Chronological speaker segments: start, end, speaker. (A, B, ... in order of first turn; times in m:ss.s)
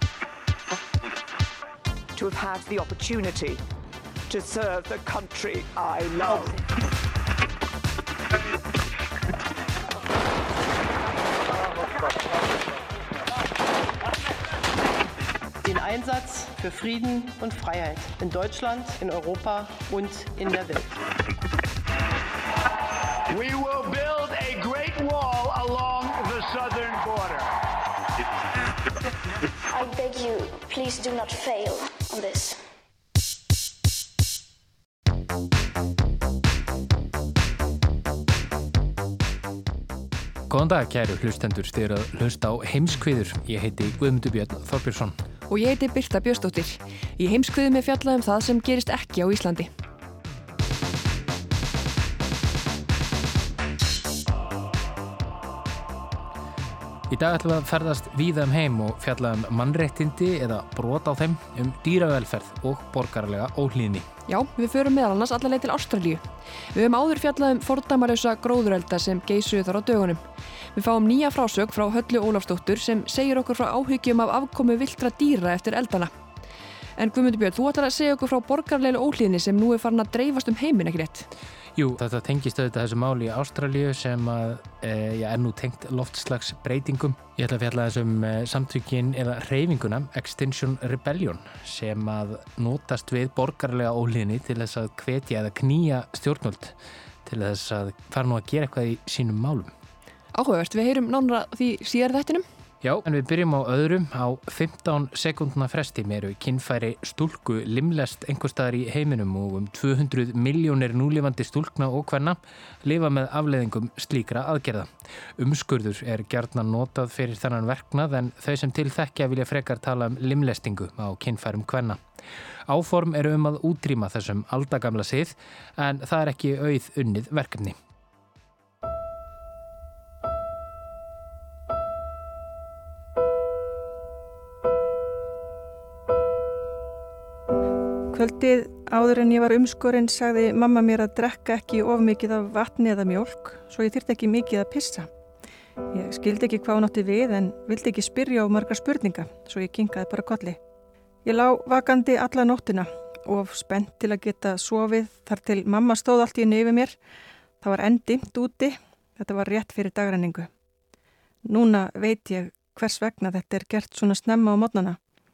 0:02.2-0:03.6 A
0:04.3-0:06.6 A
0:15.6-0:21.0 B
0:23.3-0:27.5 C
0:29.7-0:32.6 D
0:40.5-0:45.2 E
0:45.5-0:49.7 F
0:57.1-1:04.1 E
1:04.3-1:16.1 F
1:17.0-1:21.3 F
1:21.8-1:39.7 E
1:40.3-1:42.4 F
1:42.8-2:02.0 E
2:02.7-2:07.8 E
2:18.1-2:25.1 G
2:25.9-2:30.6 G
2:31.2-2:37.0 G
2:37.6-2:40.5 G
2:41.4-2:45.0 G